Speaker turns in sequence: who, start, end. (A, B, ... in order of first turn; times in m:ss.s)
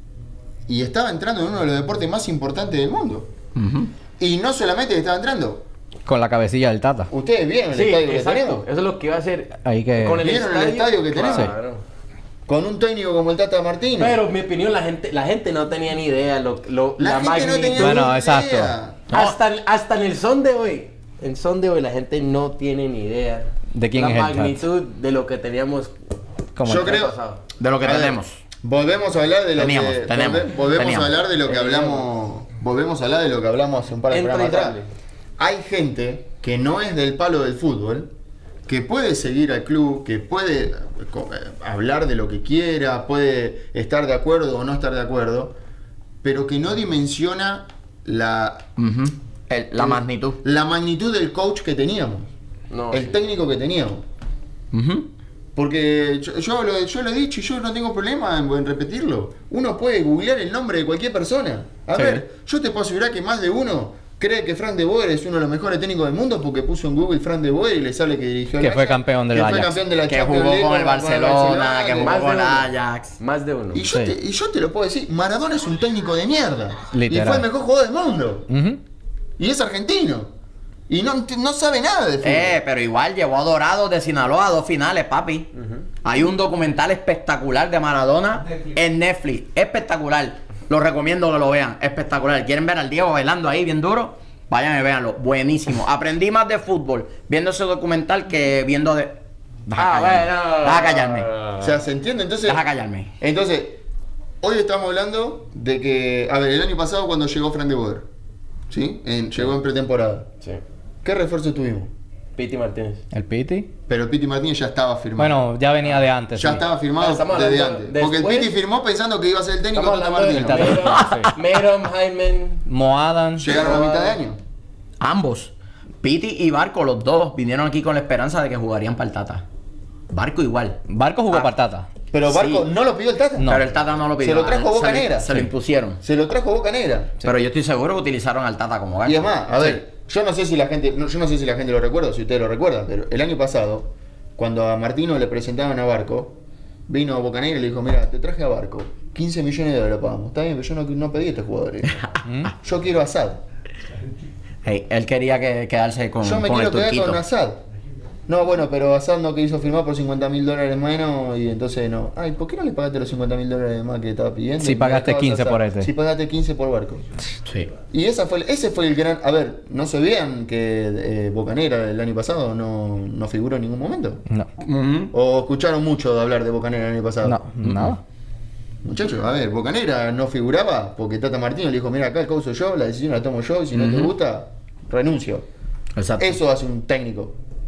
0:00.7-0:03.3 A
0:03.5-0:03.9 B
0:04.2-0:05.6 A
0:06.0-0:07.1 C
0:07.1-0:08.6 A
0:07.7-0:11.8 D
0:09.6-0:10.2 C
0:10.2-0:11.5 A
0:12.5-0:14.2 A
0:14.0-0:18.1 D
0:17.0-0:19.0 A
0:17.7-0:18.7 C
0:19.1-0:19.4 B
0:19.1-0:25.9 D
0:23.7-0:24.6 C
0:26.6-0:26.9 C
0:26.6-0:27.2 A
0:26.6-0:27.4 D
0:27.6-0:28.4 B
0:27.8-0:34.8 A
0:29.6-0:31.2 B
0:31.5-0:32.0 D
0:34.1-0:34.9 D
0:35.4-0:38.1 A
0:38.7-0:45.5 A
0:46.2-0:48.7 A
0:48.8-0:50.4 B
0:49.8-0:52.3 A
0:52.7-0:53.2 D
0:52.9-0:54.0 A
0:54.7-0:55.1 B
0:55.6-1:12.3 A
1:01.9-1:02.2 C
1:08.6-1:09.8 C
1:10.0-1:13.1 B
1:12.0-1:13.8 D
1:13.7-1:18.5 A
1:16.9-1:17.4 C
1:18.5-1:18.8 C
1:19.4-1:20.3 A
1:20.9-1:22.6 A
1:22.2-1:25.5 B
1:26.0-1:41.3 B
1:39.8-1:41.8 D
1:41.6-1:42.6 A
1:42.4-1:43.1 B
1:43.2-1:43.8 A
1:44.4-1:48.1 A
1:48.7-1:50.3 A
1:51.0-1:51.9 A
1:52.4-1:53.0 D
1:53.1-1:53.7 C
1:53.9-2:00.9 A
1:55.2-1:56.6 C
1:57.0-1:58.5 D
1:59.7-2:02.6 D
2:00.3-2:01.3 C
2:00.9-2:01.3 B
2:02.7-2:03.5 C
2:03.4-2:04.4 A
2:03.4-2:04.2 D
2:05.0-2:09.4 B
2:10.1-2:11.5 B
2:10.9-2:11.9 C
2:12.1-2:13.6 A
2:12.3-2:12.6 B
2:13.4-2:16.0 B
2:14.2-2:17.1 A
2:17.2-2:19.4 B
2:19.0-2:26.4 A
2:26.9-2:33.4 A
2:32.2-2:32.5 C
2:34.6-2:37.2 B
2:36.2-2:37.6 A
2:38.3-2:47.1 A
2:44.6-2:45.9 C
2:47.9-2:54.2 A
2:54.6-2:55.1 B
2:55.1-2:57.4 A
2:57.2-2:58.0 C
2:57.6-2:58.0 B
2:58.8-3:05.4 A
3:03.7-3:04.1 B
3:06.0-3:06.4 B
3:06.2-3:07.4 A